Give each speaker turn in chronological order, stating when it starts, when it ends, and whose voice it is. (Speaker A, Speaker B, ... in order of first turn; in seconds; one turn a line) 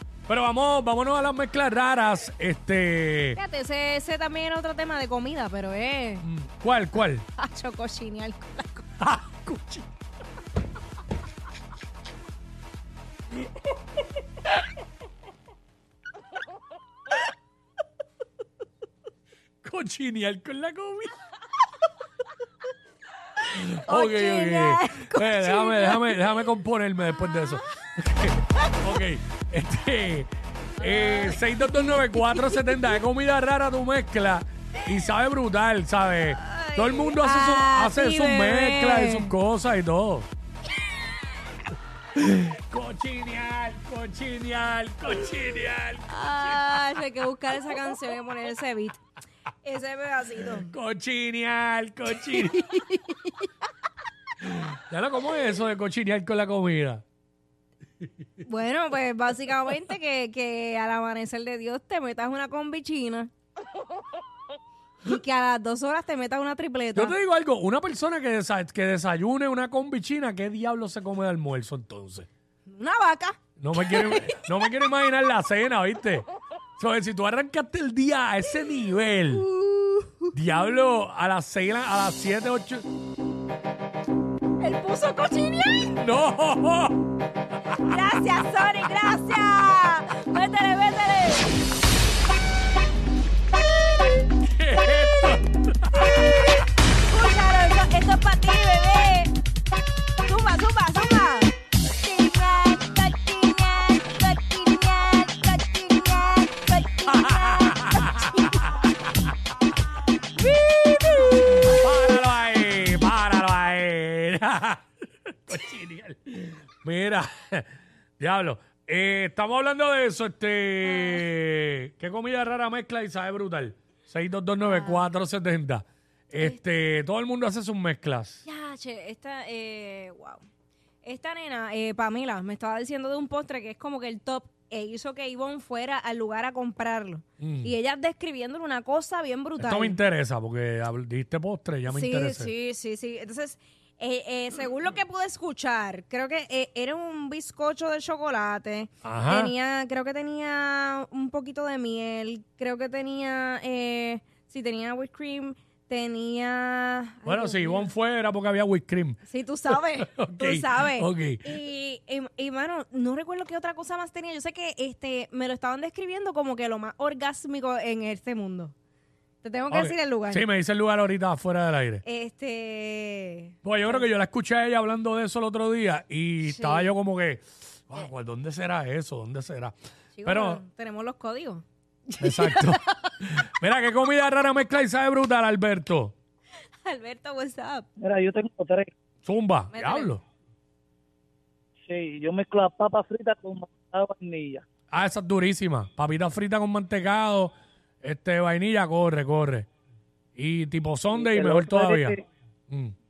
Speaker A: 0.3-3.4
Speaker B: 3.4-6.2
Speaker A: 6.2-7.2
Speaker B: 7.3-8.9
Speaker A: 9.0-9.9
Speaker A: 19.6-21.1
Speaker A: 23.4-40.3
Speaker B: 23.8-26.2
Speaker B: 30.8-32.9
Speaker B: 36.4-39.3
Speaker A: 42.2-46.9
Speaker B: 46.1-49.0
Speaker B: 49.6-50.7
Speaker A: 50.7-52.7
Speaker B: 52.3-53.5
Speaker A: 54.5-57.0
Speaker B: 58.4-63.3
Speaker B: 65.0-67.2
Speaker A: 67.0-72.3
Speaker B: 72.7-74.5
Speaker A: 73.6-76.3
Speaker A: 76.8-79.5
Speaker B: 79.3-80.3
Speaker A: 80.3-82.8
Speaker B: 84.6-86.0
Speaker A: 86.0-87.0
Speaker B: 87.8-91.5
Speaker A: 94.4-96.5
Speaker B: 94.8-95.3
Speaker B: 96.0-99.3
Speaker B: 100.2-108.7
Speaker A: 107.1-108.9
Speaker B: 110.4-111.8
Speaker A: 111.6-117.7
Speaker A: 118.2-128.4
Speaker B: 120.8-121.3
Speaker B: 124.6-125.1
Speaker B: 128.5-130.4
Speaker B: 131.0-140.0
Speaker A: 137.4-137.7
Speaker A: 139.6-142.5
Speaker B: 141.9-157.9
Speaker A: 149.0-149.5
Speaker A: 157.2-161.5
Speaker B: 159.2-168.8
Speaker B: 169.4-170.5
Speaker A: 169.7-172.0
Speaker B: 172.0-174.1
Speaker A: 173.6-180.6
Speaker B: 176.4-176.9
Speaker B: 180.2-183.1
Speaker A: 182.2-186.2
Speaker B: 186.8-187.9
Speaker C: 188.0-188.9
Speaker A: 189.2-190.2
Speaker B: 189.7-190.1
Speaker C: 191.8-194.6
Speaker A: 194.9-199.7
Speaker A: 200.4-202.2
Speaker C: 201.1-202.2
Speaker A: 202.7-202.9